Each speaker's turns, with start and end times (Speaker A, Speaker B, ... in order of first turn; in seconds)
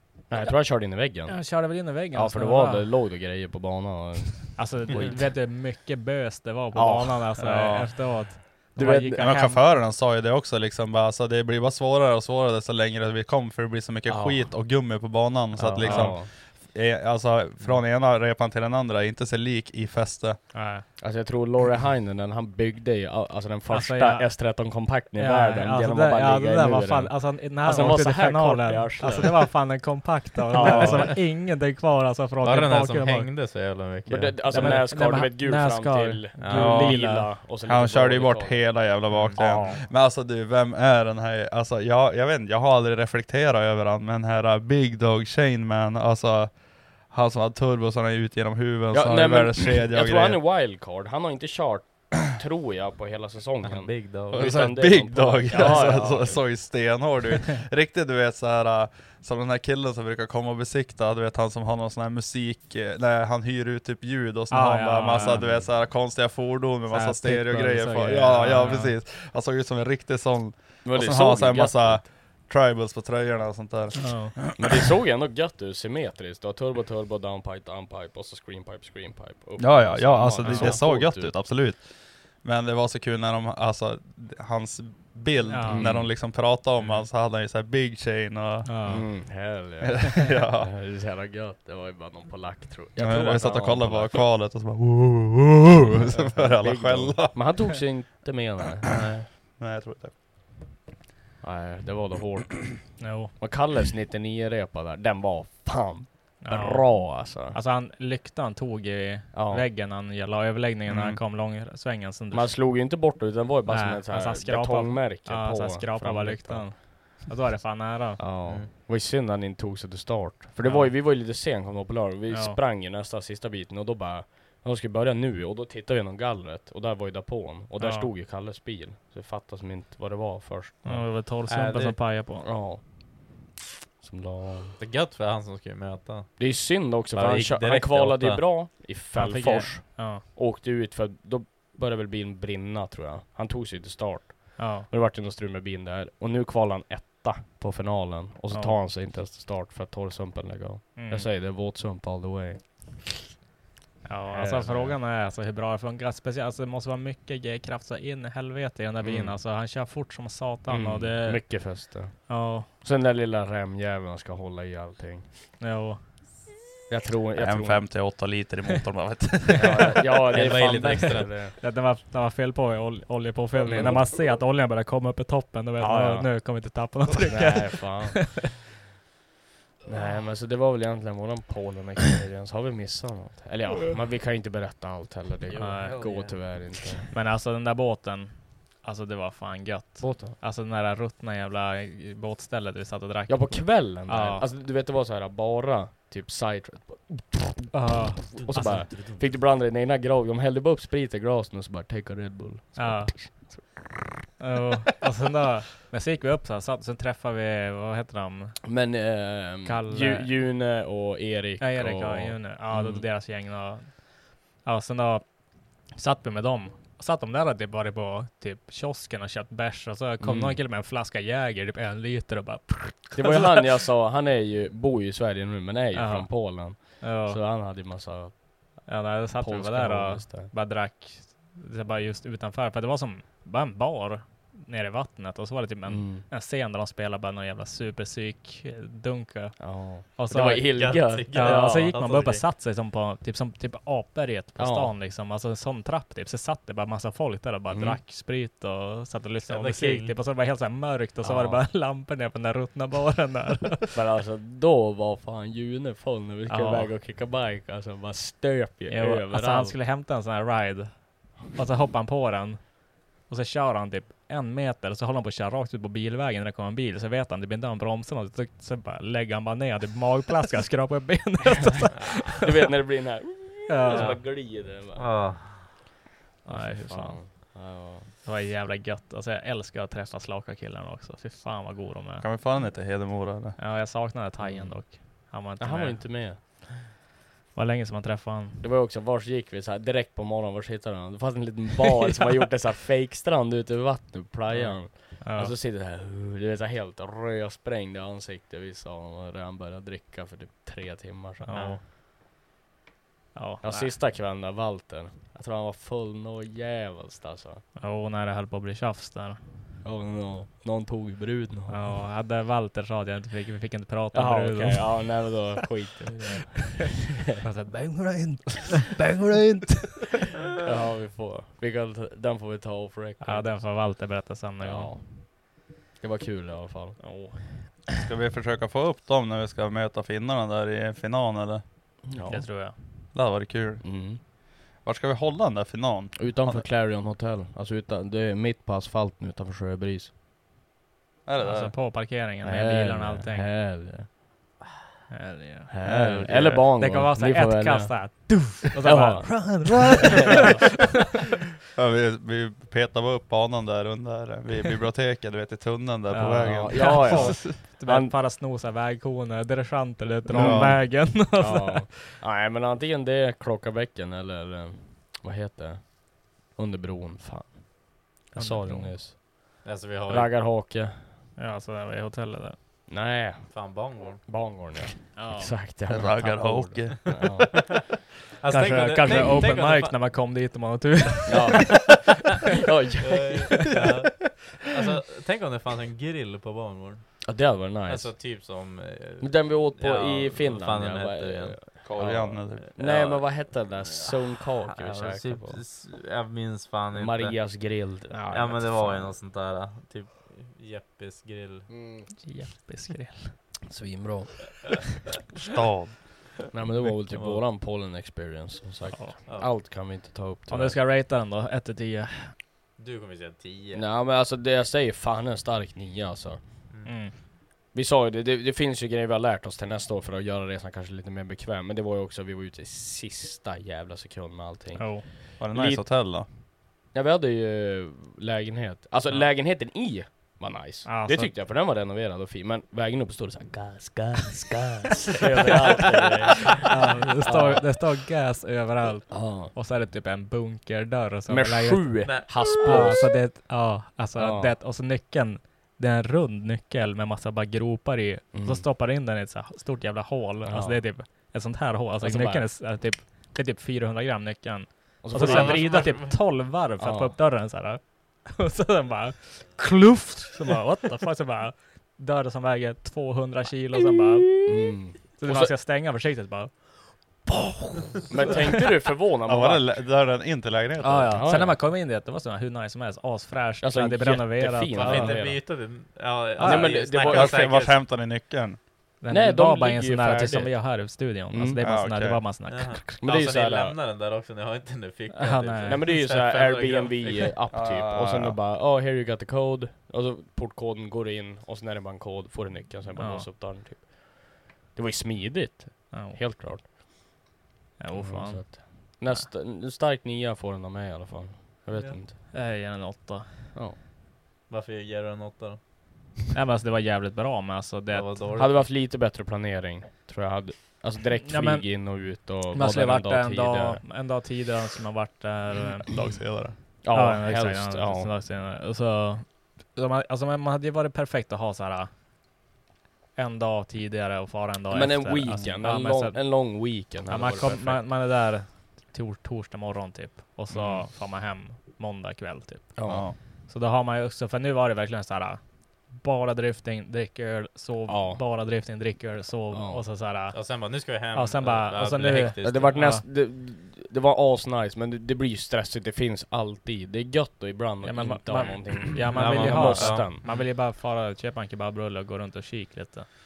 Speaker A: 0.3-5.3, 6.7-7.5, 8.7-9.2, 14.1-14.5, 15.6-16.3, 21.0-29.5, 30.5-31.2, 34.0-39.8, 48.9-56.5, 65.2-65.7, 70.8-72.1, 74.6-81.4, 85.7-86.1, 88.8-94.3, 96.3-99.3, 101.4-107.6, 109.3-109.6, 112.3-116.7, 118.2-131.1, 132.4-133.4, 134.0-134.8, 136.4-153.1, 154.3-155.0, 159.0-159.4, 160.7-165.3, 166.9-167.8, 169.6-171.5, 173.6-174.1, 175.8-176.6, 177.2-178.4, 179.8-187.1, 190.0-190.4, 193.3-203.8, 208.6-213.1, 220.2-220.6, 223.1-230.5, 235.8-236.2, 239.6-242.0, 244.6-244.9, 247.7-248.0, 251.2-251.7, 253.9-259.8, 272.3-275.2, 276.4-278.1, 284.4-286.6, 288.6-301.8, 303.6-307.6, 309.8-312.0, 314.1-317.0, 320.6-323.9, 324.6-327.5, 332.1-333.0, 333.8-334.2, 336.1-340.1, 342.4-344.1, 345.7-350.6, 356.4-358.1, 360.3-371.1, 372.9-377.9, 381.3-382.0, 382.6-383.7, 387.2-388.2, 389.2-395.6, 396.9-398.3, 401.7-402.1, 403.7-404.8, 406.5-410.8, 413.7-416.4, 417.7-425.8, 426.9-436.6, 437.2-437.6, 439.1-439.5, 441.3-443.2, 444.1-444.5, 448.3-448.6, 450.4-450.9, 452.0-452.5, 455.0-456.1, 456.8-457.1, 464.4-465.5, 468.1-469.7, 471.1-471.6, 473.6-475.5, 476.4-477.6, 479.1-481.6, 483.0-483.7, 485.6-496.7, 497.9-502.1, 508.4-513.8, 516.8-518.1, 524.7-527.8, 532.8-533.1, 537.9-538.2, 539.5-539.8, 542.4-550.2
Speaker B: 1.3-2.9, 4.5-9.7, 15.8-16.1, 20.5-20.8, 23.7-33.3, 34.5-37.3, 64.5-65.5, 66.9-68.9, 73.9-74.3, 80.4-80.8, 85.5-85.9, 88.6-89.1, 103.0-103.3, 106.4-112.7, 113.7-118.2, 120.6-120.9, 122.3-122.6, 127.8-128.1, 130.8-132.4, 139.1-140.2, 144.6-144.9, 150.9-151.3, 154.0-162.7, 165.6-166.0, 170.7-171.0, 171.6-178.4, 185.6-194.5, 197.7-199.0, 202.8-203.7, 204.4-208.6, 209.6-210.3, 211.6-223.5, 225.9-227.4, 228.9-253.9, 256.5-256.9, 258.9-272.4, 273.7-274.1, 276.4-282.3, 283.6-286.6, 287.5-288.6, 294.5-295.5, 301.4-301.8, 303.3-303.9, 307.8-309.4, 311.7-315.3, 317.4-320.1, 323.2-324.9, 327.0-327.7, 332.2-332.8, 341.4-343.5, 345.1-350.6, 356.1-361.9, 368.3-369.0, 371.4-372.6, 375.1-375.5, 378.5-381.8, 398.1-399.1, 402.2-403.4, 410.5-412.3, 416.8-417.1, 424.8-425.1, 430.9-431.3, 436.6-468.3, 470.8-475.4, 476.4-476.9, 479.0-482.9, 485.1-485.9, 492.9-493.3, 495.9-496.2, 497.8-499.3, 502.3-503.3, 506.3-508.2, 511.2-521.9, 523.1-532.8, 533.5-543.0, 547.8-553.0
Speaker C: 7.4-8.3, 9.1-20.5, 36.5-50.5, 54.3-74.9, 79.6-89.1, 89.8-90.7, 93.0-97.8, 98.8-100.1, 110.9-111.2, 167.3-169.9, 282.2-283.6, 328.0-331.6, 333.1-334.1, 334.8-336.6, 341.2-341.8, 345.9-346.7, 349.7-350.4, 351.8-357.6, 360.3-360.9, 375.9-377.5, 391.8-392.8, 405.4-406.5, 425.4-426.3, 469.2-471.3, 476.6-478.6, 481.6-482.4, 487.5-488.4, 515.9-516.6, 532.9-533.2
Speaker D: 30.6-31.2, 32.4-34.8, 36.4-36.7, 39.1-39.4, 53.6-54.5, 131.5-131.9, 134.8-136.6, 137.1-138.7, 170.3-171.3, 185.5-186.5, 198.5-199.2, 240.7-242.4, 249.5-250.1, 273.9-275.7, 301.5-301.8, 369.6-370.3, 373.5-374.2, 378.4-380.0, 383.0-391.8, 392.6-397.7, 398.3-401.7, 407.1-407.4, 412.8-413.8, 442.0-442.8, 455.1-456.1, 474.8-477.8, 482.5-487.4, 504.5-505.6, 507.9-508.6, 540.3-542.7, 549.1-550.5